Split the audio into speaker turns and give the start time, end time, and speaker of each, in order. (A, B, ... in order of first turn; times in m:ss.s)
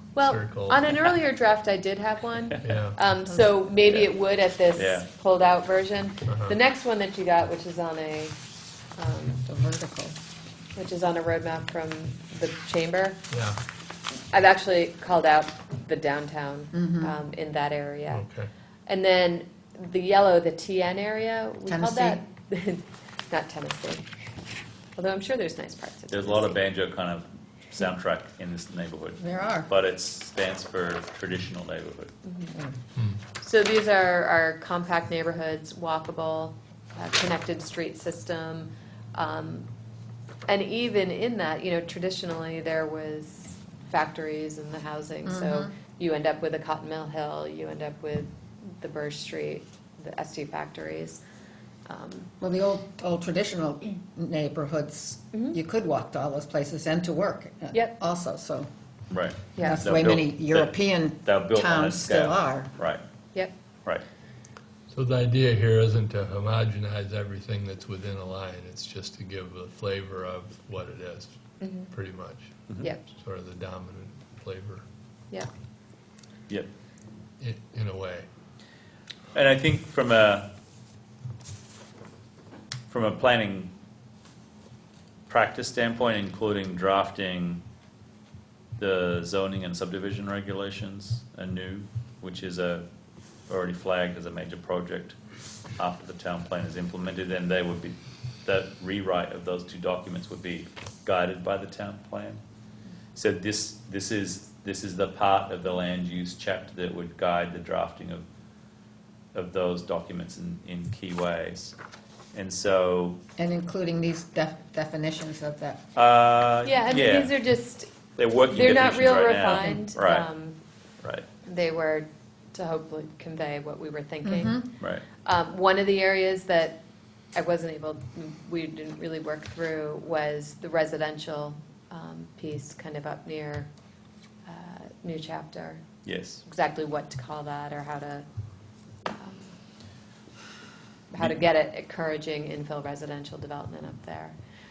0:00.2-0:08.4 A
0:00.3-0:00.8 B
0:02.7-0:03.0 B
0:03.8-0:04.1 C
0:04.8-0:05.1 C
0:09.0-0:09.4 A
0:09.5-0:10.2 D
0:10.8-0:13.2 A
0:13.3-0:13.6 B
0:14.3-0:18.3 A
0:16.7-0:17.1 D
0:18.9-0:24.1 A
0:21.7-0:22.2 D
0:25.0-0:26.6 A
0:26.1-0:32.1 C
0:29.2-0:29.7 D
0:32.2-0:32.6 A
0:33.4-0:39.7 A
0:40.5-0:51.2 A
0:45.2-0:45.7 D
0:51.9-0:52.3 A
0:52.4-0:58.7 D
0:55.3-0:55.6 A
0:59.1-1:00.7 C
0:59.6-0:59.8 A
0:59.6-1:02.7 D
1:01.2-1:03.0 C
1:04.9-1:11.4 B
1:11.6-1:11.9 A
1:12.1-1:12.5 B
1:13.2-1:14.8 B
1:17.4-1:18.3 B
1:19.3-1:20.5 C
1:22.9-1:23.7 C
1:25.3-1:27.6 C
1:28.8-1:32.8 C
1:33.5-1:35.2 C
1:35.8-1:42.4 C
1:43.2-1:48.2 C
1:49.3-1:51.8 C
1:52.3-1:53.2 C
1:53.4-1:55.8 D
1:56.0-1:57.3 C
1:56.6-1:57.9 A
1:58.2-2:00.3 C
1:58.5-2:00.6 A
2:01.4-2:04.7 A
2:04.2-2:04.6 D
2:04.8-2:05.0 C
2:05.2-2:06.8 A
2:07.4-2:13.7 A
2:14.5-2:15.9 A
2:16.0-2:16.4 C
2:16.4-2:18.3 A
2:19.1-2:19.6 A
2:21.1-2:24.4 A